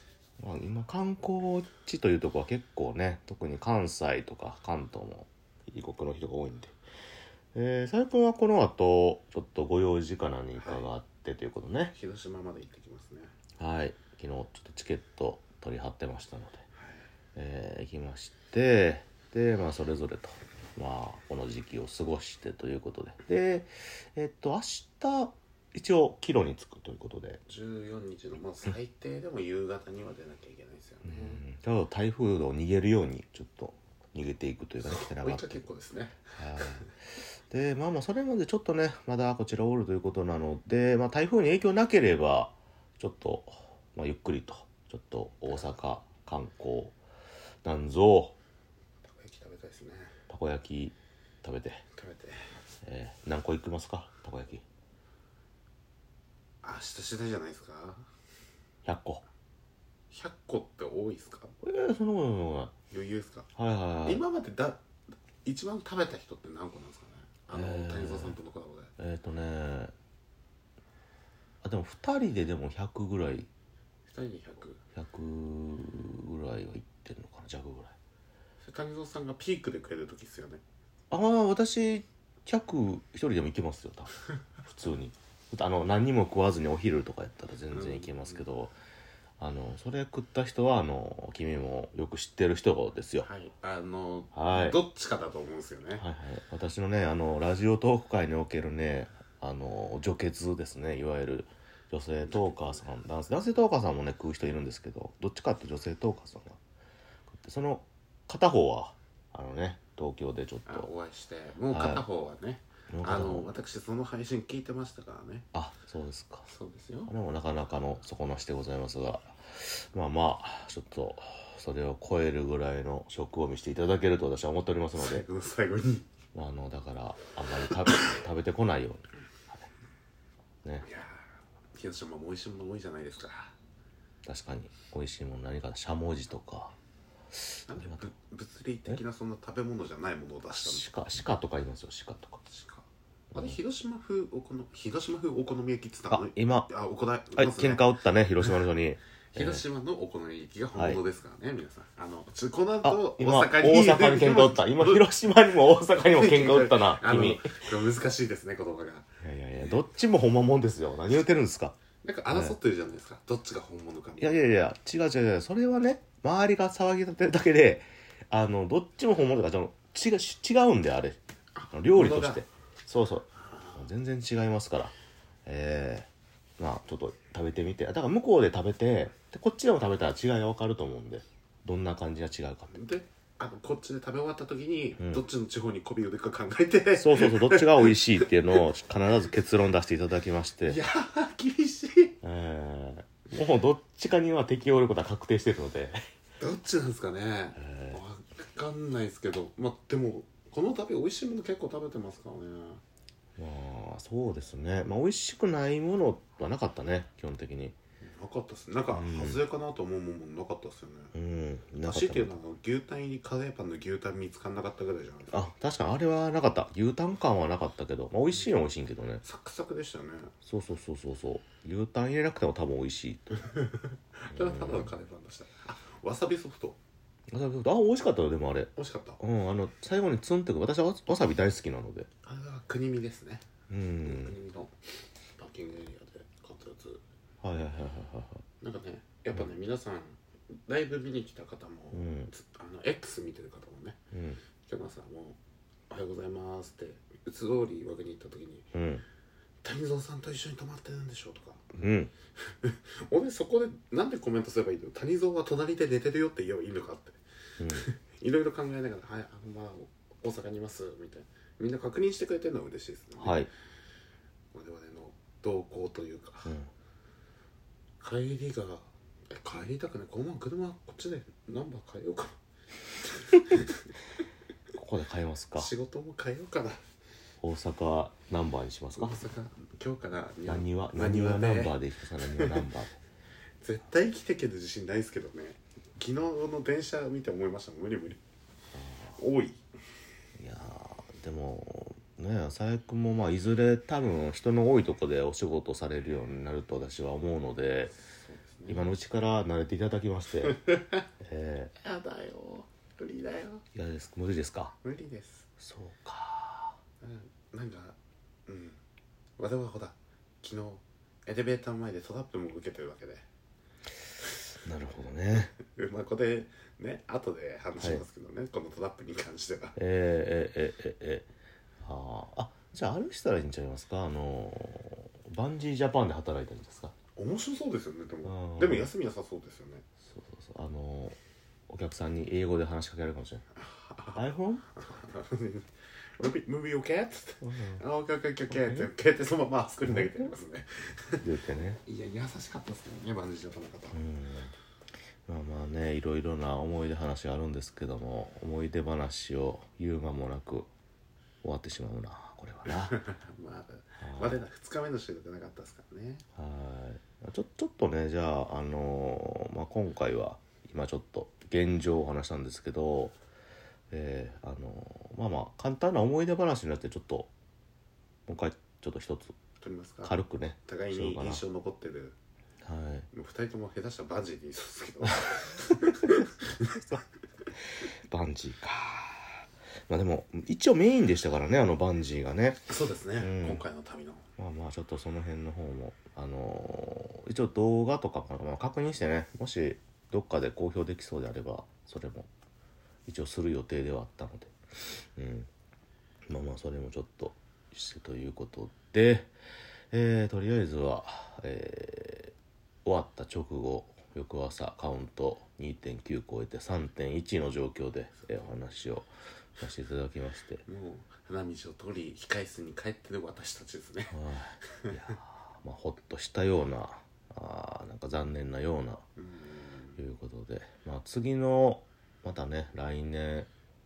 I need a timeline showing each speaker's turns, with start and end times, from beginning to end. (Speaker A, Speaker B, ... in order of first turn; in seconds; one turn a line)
Speaker A: 0.4-6.8
Speaker A: 7.5-11.9
Speaker B: 10.6-10.9
Speaker B: 11.9-13.3
Speaker A: 13.6-16.6
Speaker B: 16.7-17.1
Speaker A: 17.4-27.4
Speaker B: 27.4-31.4
Speaker A: 31.1-35.6
Speaker B: 34.8-36.9
Speaker A: 36.3-36.9
Speaker A: 37.5-47.0
Speaker B: 45.5-45.7
Speaker A: 47.6-48.3
Speaker B: 49.1-50.1
Speaker A: 50.3-51.8
Speaker B: 52.0-52.5
Speaker A: 52.8-54.6
Speaker B: 56.6-58.0
Speaker A: 58.8-59.2
Speaker B: 60.1-61.5
Speaker A: 61.6-62.7
Speaker B: 62.9-63.5
Speaker A: 63.5-64.2
Speaker B: 64.0-64.8
Speaker B: 65.4-68.9
Speaker A: 67.5-68.4
Speaker A: 69.0-69.9
Speaker A: 71.6-73.5
Speaker B: 74.1-74.8
Speaker A: 74.9-77.9
Speaker B: 78.6-80.6
Speaker A: 81.1-88.8
Speaker B: 87.7-88.4
Speaker A: 89.4-93.3
Speaker B: 93.2-96.0
Speaker A: 94.3-94.8
Speaker A: 96.0-106.6
Speaker B: 102.2-102.8
Speaker A: 107.3-110.9
Speaker B: 110.7-115.5
Speaker A: 111.7-112.0
Speaker A: 112.9-113.5
Speaker A: 115.5-116.5
Speaker B: 116.4-117.1
Speaker A: 117.1-125.2
Speaker B: 125.0-126.1
Speaker A: 126.3-129.7
Speaker B: 130.8-131.2
Speaker B: 131.7-133.5
Speaker A: 134.2-136.7
Speaker A: 137.4-138.1
Speaker B: 137.7-140.9
Speaker A: 140.6-142.4
Speaker B: 142.5-147.8
Speaker A: 143.3-143.6
Speaker A: 146.1-146.7
Speaker A: 147.3-149.6
Speaker B: 149.3-155.1
Speaker A: 150.7-151.0
Speaker A: 152.8-157.7
Speaker B: 156.0-159.8
Speaker A: 159.2-162.5
Speaker B: 162.0-164.4
Speaker A: 164.2-171.2
Speaker B: 171.6-172.4
Speaker A: 171.7-174.9
Speaker B: 173.4-173.8
Speaker A: 175.4-176.1
Speaker A: 176.6-182.8
Speaker B: 182.7-187.9
Speaker A: 185.0-185.2
Speaker A: 186.9-190.8
Speaker B: 190.7-192.2
Speaker A: 192.2-196.0
Speaker B: 196.4-202.8
Speaker A: 197.6-198.0
Speaker A: 203.4-207.8
Speaker B: 208.0-211.1
Speaker A: 208.9-209.4
Speaker A: 211.1-212.3
Speaker B: 211.8-215.5
Speaker A: 215.3-219.2
Speaker B: 219.2-220.3
Speaker A: 220.4-223.4
Speaker B: 223.4-226.8
Speaker A: 224.3-224.9
Speaker A: 227.3-232.1
Speaker B: 228.8-229.2
Speaker B: 232.2-233.4
Speaker A: 233.7-234.3
Speaker B: 234.0-234.7
Speaker B: 235.4-237.0
Speaker A: 237.4-238.4
Speaker B: 238.6-244.0
Speaker A: 241.9-242.3
Speaker A: 244.1-244.4
Speaker B: 244.7-245.4
Speaker B: 245.9-248.7
Speaker A: 248.7-249.0
Speaker B: 249.6-251.7
Speaker A: 251.7-252.1
Speaker B: 252.5-257.2
Speaker A: 257.6-257.8
Speaker B: 257.7-263.4
Speaker A: 263.2-263.5
Speaker B: 264.5-266.5
Speaker B: 268.0-272.3
Speaker B: 273.3-273.7
Speaker A: 274.7-275.7
Speaker B: 275.6-276.8
Speaker A: 277.4-279.2
Speaker B: 278.9-282.6
Speaker A: 280.4-283.0
Speaker B: 283.6-288.2
Speaker A: 288.7-289.2
Speaker B: 289.1-289.6
Speaker A: 290.4-297.9
Speaker B: 298.0-298.9
Speaker A: 298.7-300.6
Speaker B: 300.4-301.0
Speaker A: 301.2-301.7
Speaker B: 301.8-303.6
Speaker A: 303.7-304.7
Speaker B: 304.8-305.5
Speaker A: 305.6-306.8
Speaker B: 307.0-308.8
Speaker B: 309.4-313.2
Speaker A: 314.6-315.5
Speaker B: 315.7-319.8
Speaker A: 319.8-321.3
Speaker A: 321.8-326.9
Speaker B: 327.1-329.9
Speaker A: 328.2-328.9
Speaker A: 330.0-331.2
Speaker A: 331.7-333.4
Speaker B: 333.6-341.2
Speaker A: 334.1-334.7
Speaker A: 337.4-337.8
Speaker A: 338.5-338.9
Speaker A: 339.8-340.3
Speaker A: 341.2-341.8
Speaker B: 341.8-344.0
Speaker A: 343.9-344.5
Speaker A: 345.3-350.7
Speaker A: 351.4-353.0
Speaker B: 352.8-356.2
Speaker A: 354.0-354.4
Speaker A: 356.4-363.1
Speaker A: 363.9-367.3
Speaker A: 368.3-369.4
Speaker B: 369.6-370.1
Speaker A: 370.0-371.4
Speaker B: 370.6-372.1
Speaker A: 372.6-373.1
Speaker B: 373.1-376.8
Speaker A: 378.1-383.6
Speaker B: 382.7-384.3
Speaker A: 384.4-392.3
Speaker A: 393.1-395.5
Speaker A: 396.3-399.3
Speaker A: 399.9-410.6
Speaker B: 410.6-414.2
Speaker A: 414.1-419.0
Speaker B: 419.2-420.0
Speaker A: 420.0-423.5